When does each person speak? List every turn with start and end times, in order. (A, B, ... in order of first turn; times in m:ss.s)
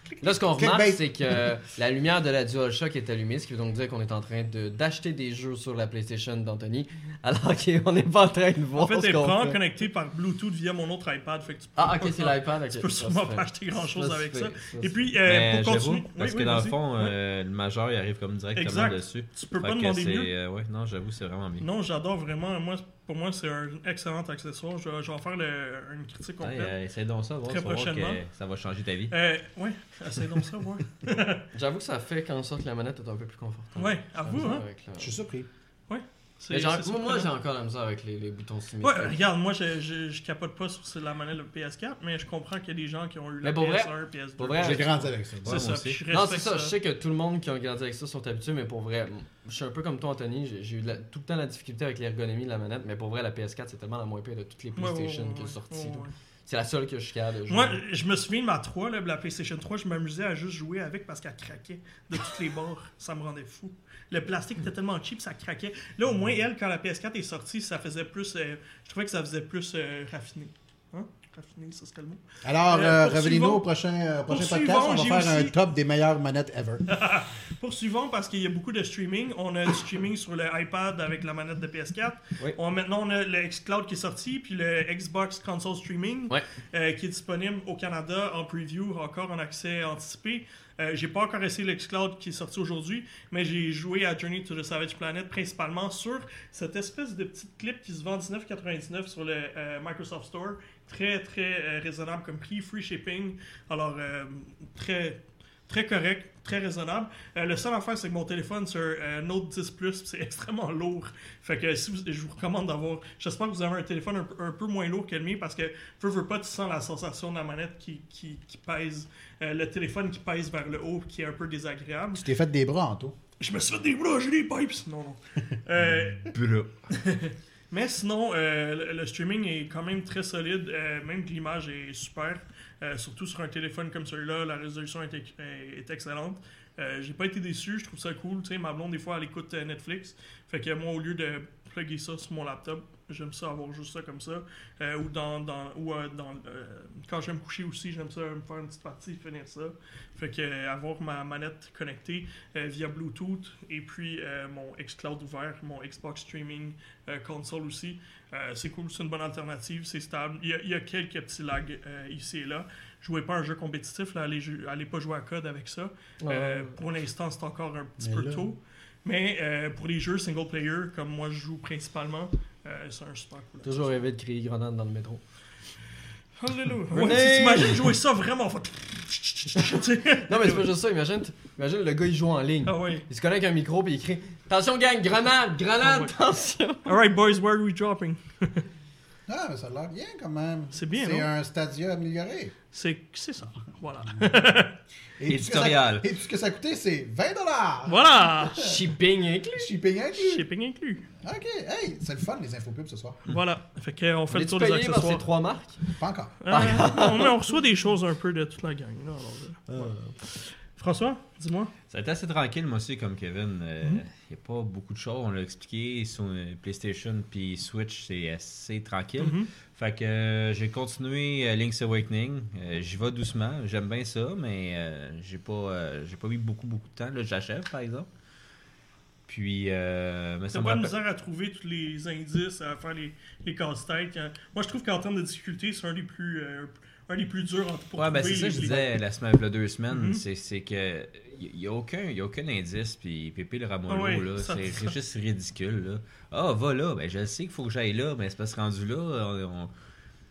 0:00.2-0:09.6 A
0:00.6-0:01.1 B
0:08.8-0:17.2 C
0:11.8-0:15.0 A
0:15.2-0:21.7 D
0:18.6-0:20.3 C
0:21.6-0:26.7 C
0:26.4-0:29.2 D
0:27.5-0:28.2 C
0:29.1-0:31.4 C
0:31.5-0:35.1 A
0:33.8-0:34.6 C
0:35.0-0:35.5 B
0:35.9-0:37.3 C
0:36.5-0:39.2 A
0:38.8-0:46.7 C
0:43.4-0:45.0 A
0:44.6-0:45.6 B
0:45.4-0:46.0 D
0:46.1-0:57.8 A
0:54.8-0:56.1 C
0:57.5-1:13.6 C
1:12.4-1:16.9 B
1:14.3-1:15.6 C
1:16.9-2:02.3 C
2:02.1-2:03.2 B
2:03.4-2:06.3 C
2:06.3-2:06.7 D
2:06.9-2:53.9 C
2:46.2-2:46.8 A
2:48.0-2:48.5 B
2:53.6-2:55.2 A
2:56.4-3:00.7 C
2:56.9-2:57.9 A
3:00.3-3:07.0 A
3:02.7-3:03.0 C
3:05.8-3:06.1 C
3:06.9-3:08.6 C
3:09.3-3:12.6 B
3:10.7-3:11.3 C
3:12.7-3:14.8 C
3:15.2-3:18.8 B
3:15.3-3:16.1 D
3:17.9-3:18.8 C
3:18.6-3:19.7 A
3:19.6-3:20.5 B
3:20.2-3:21.1 C
3:21.2-3:23.3 B
3:23.3-3:25.3 C
3:24.3-3:25.8 A
3:26.0-3:26.4 B
3:26.4-3:31.7 C
3:26.5-3:27.4 A
3:31.9-3:48.1 D
3:39.2-3:39.5 C
3:49.3-3:51.0 D
3:50.5-3:58.9 C
3:58.0-4:09.7 D
3:59.9-4:00.2 C
4:03.9-4:04.9 C